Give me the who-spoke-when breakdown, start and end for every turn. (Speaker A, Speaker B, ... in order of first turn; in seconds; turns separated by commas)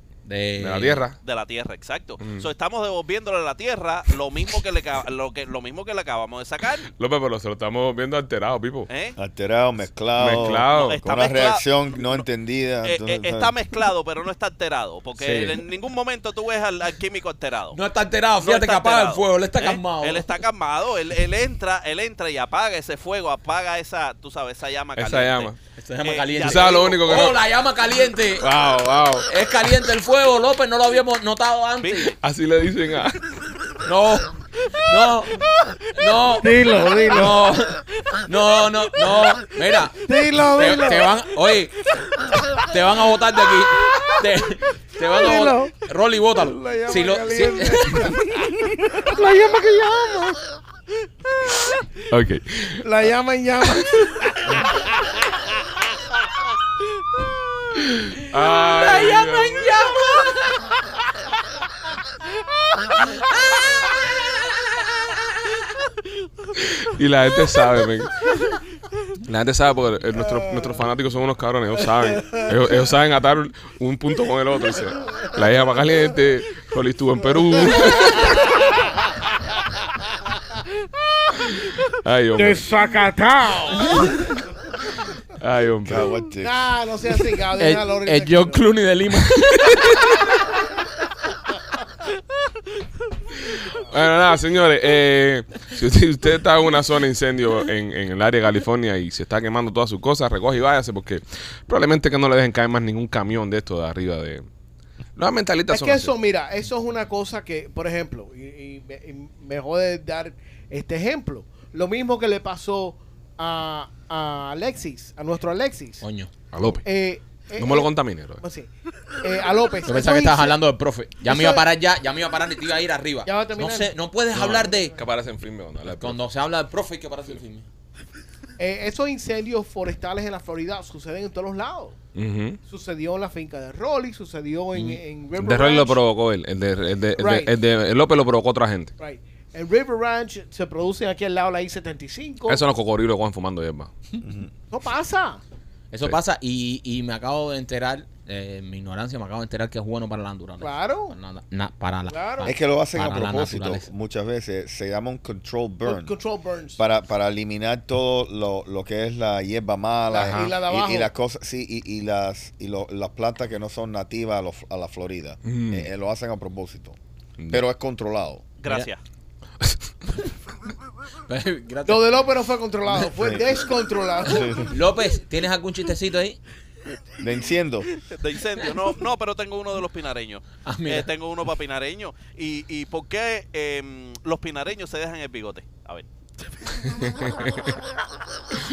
Speaker A: 0.2-1.0, Speaker B: 0.6-1.2, Speaker C: 1.2-6.9, Speaker B: 2.2-2.5, Speaker B: 7.0-8.9, Speaker C: 8.9-9.2, Speaker D: 9.2-13.5, Speaker B: 10.2-11.0, Speaker C: 10.7-12.2, Speaker C: 12.8-17.8, Speaker B: 15.2-15.6, Speaker A: 17.7-20.4, Speaker C: 18.4-25.5, Speaker B: 25.0-25.6, Speaker A: 25.8-28.5, Speaker C: 26.0-27.4, Speaker B: 26.4-27.4, Speaker B: 28.4-29.3, Speaker A: 29.3-32.1, Speaker C: 31.8-32.2, Speaker B: 32.2-33.3, Speaker A: 33.8-41.8, Speaker E: 36.4-37.5, Speaker E: 40.0-41.1, Speaker A: 42.6-48.2, Speaker E: 45.1-45.8, Speaker E: 46.4-49.2, Speaker B: 49.1-50.4, Speaker B: 52.0-52.9, Speaker E: 52.8-55.8, Speaker B: 53.6-54.1, Speaker B: 58.1-59.8, Speaker A: 58.2-60.6, Speaker B: 66.6-68.2, Speaker B: 69.2-78.6, Speaker E: 77.7-78.6, Speaker B: 81.5-82.7, Speaker E: 82.4-84.4, Speaker B: 85.4-86.1, Speaker D: 85.8-86.6, Speaker E: 86.4-88.6, Speaker A: 87.6-90.1, Speaker B: 93.4-104.5, Speaker B: 105.2-106.1, Speaker E: 105.7-116.0, Speaker A: 116.0-116.3, Speaker B: 116.5-116.8, Speaker E: 116.7-118.7, Speaker B: 117.6-118.4, Speaker E: 119.2-120.6, Speaker A: 119.9-125.0, Speaker E: 121.2-121.7, Speaker E: 123.3-123.9, Speaker B: 124.3-126.2, Speaker A: 125.8-127.7, Speaker E: 128.6-132.0, Speaker B: 132.2-132.6, Speaker E: 132.7-136.0, Speaker A: 134.8-135.0, Speaker B: 135.4-138.9, Speaker E: 137.2-137.5, Speaker E: 139.0-142.6, Speaker B: 142.5-143.9, Speaker D: 144.2-144.5, Speaker E: 144.7-145.4, Speaker A: 145.9-153.9, Speaker E: 150.6-151.2, Speaker E: 152.1-152.5, Speaker D: 152.4-156.1, Speaker E: 155.8-156.8, Speaker D: 156.8-167.0, Speaker E: 160.1-161.1, Speaker B: 160.2-160.5, Speaker B: 165.4-165.9, Speaker D: 167.5-168.4, Speaker C: 168.6-169.0, Speaker A: 171.3-172.1, Speaker E: 171.9-174.7, Speaker D: 173.2-173.5, Speaker D: 174.2-174.7, Speaker A: 174.7-176.4, Speaker D: 177.2-177.9, Speaker C: 178.1-186.1, Speaker A: 180.6-181.1, Speaker C: 186.7-187.0, Speaker B: 186.9-187.7